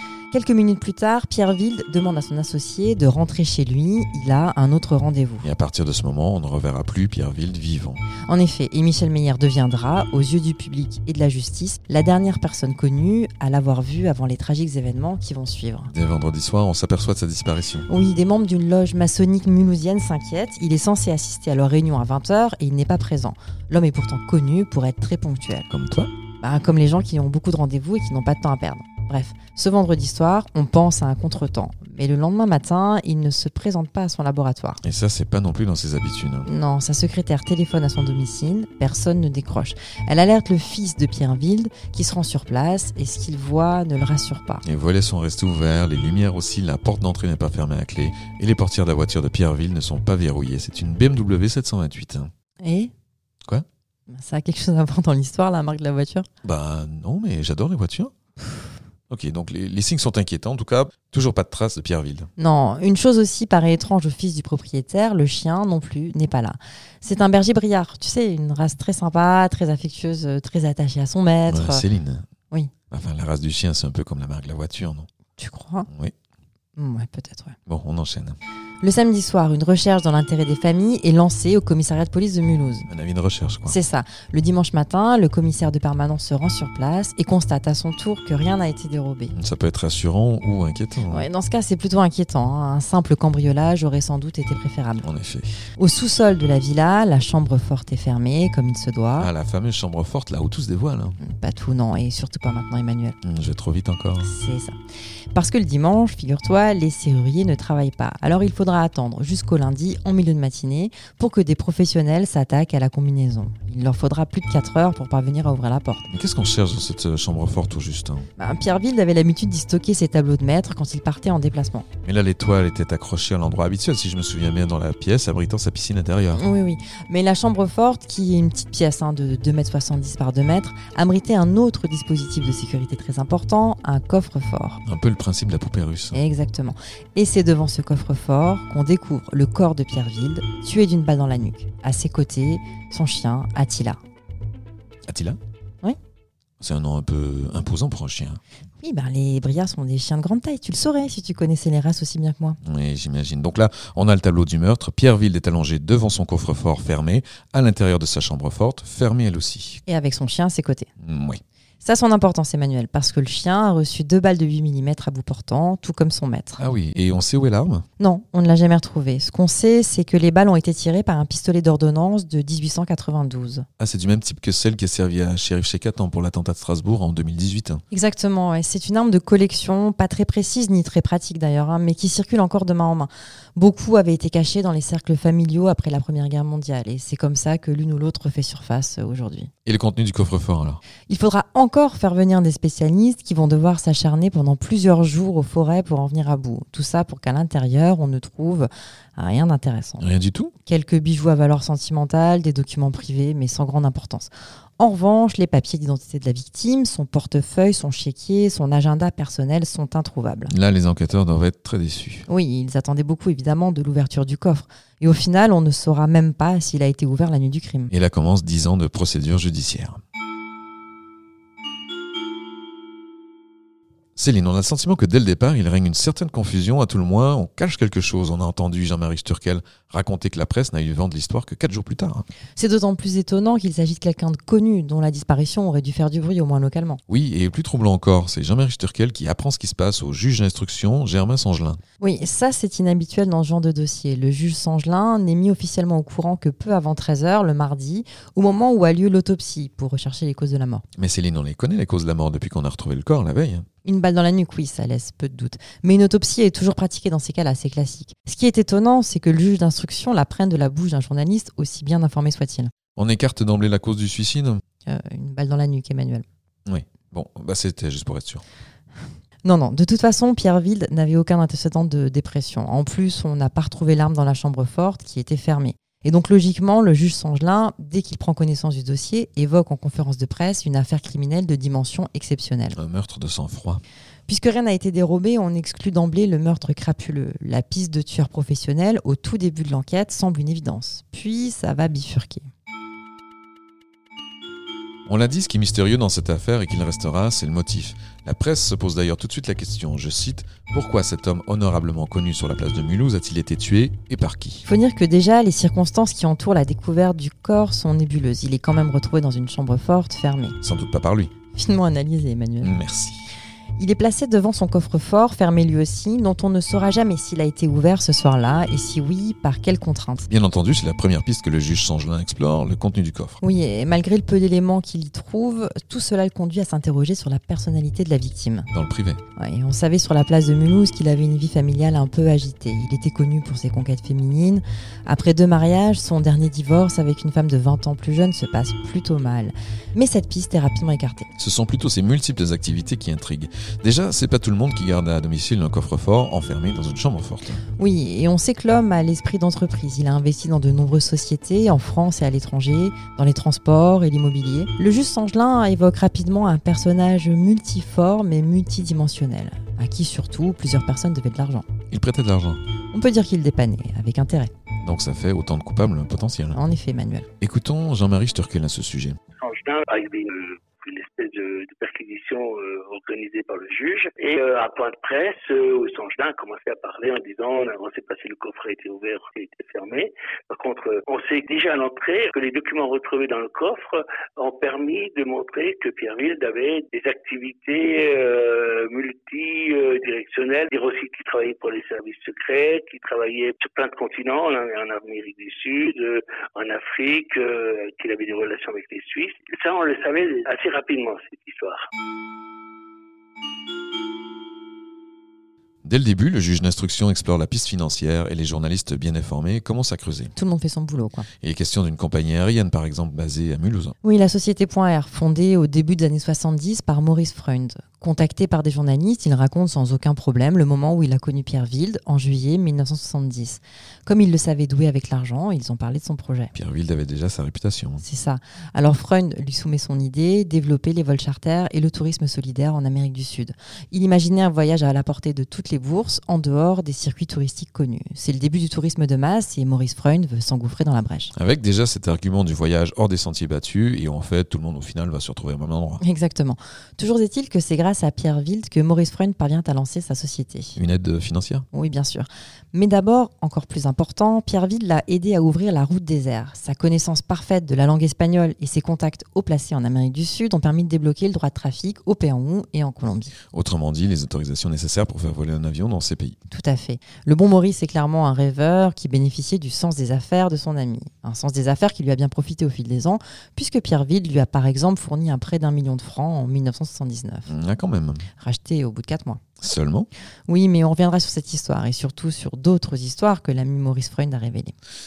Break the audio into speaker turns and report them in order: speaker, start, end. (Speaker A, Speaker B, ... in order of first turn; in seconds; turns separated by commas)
Speaker A: 0.3-5.5, Speaker B: 5.4-8.0, Speaker A: 8.3-15.9, Speaker B: 15.9-17.9, Speaker A: 17.9-25.7, Speaker B: 25.7-26.1, Speaker A: 26.4-34.8, Speaker B: 34.8-36.5, Speaker A: 36.5-44.6, Speaker B: 44.6-52.3, Speaker A: 52.6-52.9, Speaker A: 54.1-56.3, Speaker B: 56.4-58.1, Speaker B: 59.1-62.3, Speaker A: 62.4-71.8, Speaker B: 71.5-72.3, Speaker B: 72.9-75.1, Speaker A: 75.4-75.9, Speaker B: 75.9-76.1, Speaker A: 76.8-77.6, Speaker B: 77.7-78.4, Speaker A: 78.8-82.9, Speaker B: 82.9-83.8, Speaker A: 83.7-89.3, Speaker B: 89.3-91.3, Speaker A: 91.1-95.1, Speaker B: 95.0-95.5, Speaker A: 95.8-99.3, Speaker B: 99.2-101.2, Speaker A: 101.2-103.2, Speaker B: 103.2-104.3, Speaker A: 104.2-104.8, Speaker A: 105.3-116.1, Speaker B: 116.1-118.3, Speaker A: 118.4-121.9, Speaker B: 122.0-126.4, Speaker A: 126.3-134.8, Speaker B: 134.8-136.2, Speaker A: 136.1-144.0, Speaker B: 145.1-145.4, Speaker B: 146.6-148.4, Speaker A: 148.8-152.6, Speaker B: 152.6-159.8, Speaker A: 159.9-160.9, Speaker B: 161.0-161.4, Speaker A: 161.8-166.6, Speaker B: 166.6-167.8, Speaker A: 168.0-173.7, Speaker B: 173.8-177.8, Speaker A: 177.9-189.5, Speaker B: 189.6-190.8, Speaker A: 191.1-200.1, Speaker B: 200.0-200.5, Speaker A: 200.6-210.5, Speaker B: 210.5-212.3, Speaker A: 212.3-217.9, Speaker B: 217.9-220.0, Speaker B: 224.2-232.2, Speaker A: 232.6-237.0, Speaker B: 237.1-241.8, Speaker A: 242.0-250.8, Speaker B: 251.0-253.7, Speaker A: 253.8-262.7, Speaker B: 262.9-264.6, Speaker A: 264.8-266.2, Speaker B: 266.6-268.4, Speaker A: 269.4-282.8, Speaker B: 282.8-283.8, Speaker A: 284.3-292.5, Speaker B: 295.1-304.7, Speaker A: 304.6-310.6, Speaker B: 310.6-311.3, Speaker A: 311.5-312.8, Speaker B: 312.6-313.3, Speaker A: 313.8-320.3, Speaker B: 320.3-323.4, Speaker A: 323.4-328.7, Speaker B: 328.7-329.2, Speaker A: 329.4-341.3, Speaker B: 341.4-347.6, Speaker A: 347.8-361.7, Speaker B: 361.9-362.6, Speaker A: 362.9-364.5, Speaker B: 364.8-366.6, Speaker A: 366.5-367.3, Speaker B: 367.4-369.2, Speaker C: 369.4-401.8, Speaker B: 405.8-410.3, Speaker A: 410.4-411.3, Speaker B: 411.4-413.9, Speaker A: 414.0-426.5, Speaker B: 426.5-428.0, Speaker A: 428.0-441.3, Speaker B: 441.3-446.0, Speaker A: 446.0-450.8, Speaker B: 450.8-451.6, Speaker A: 451.7-463.3, Speaker B: 463.5-466.4, Speaker A: 466.5-477.5, Speaker B: 477.5-478.3, Speaker A: 478.4-479.4, Speaker B: 479.6-480.1, Speaker A: 480.5-484.7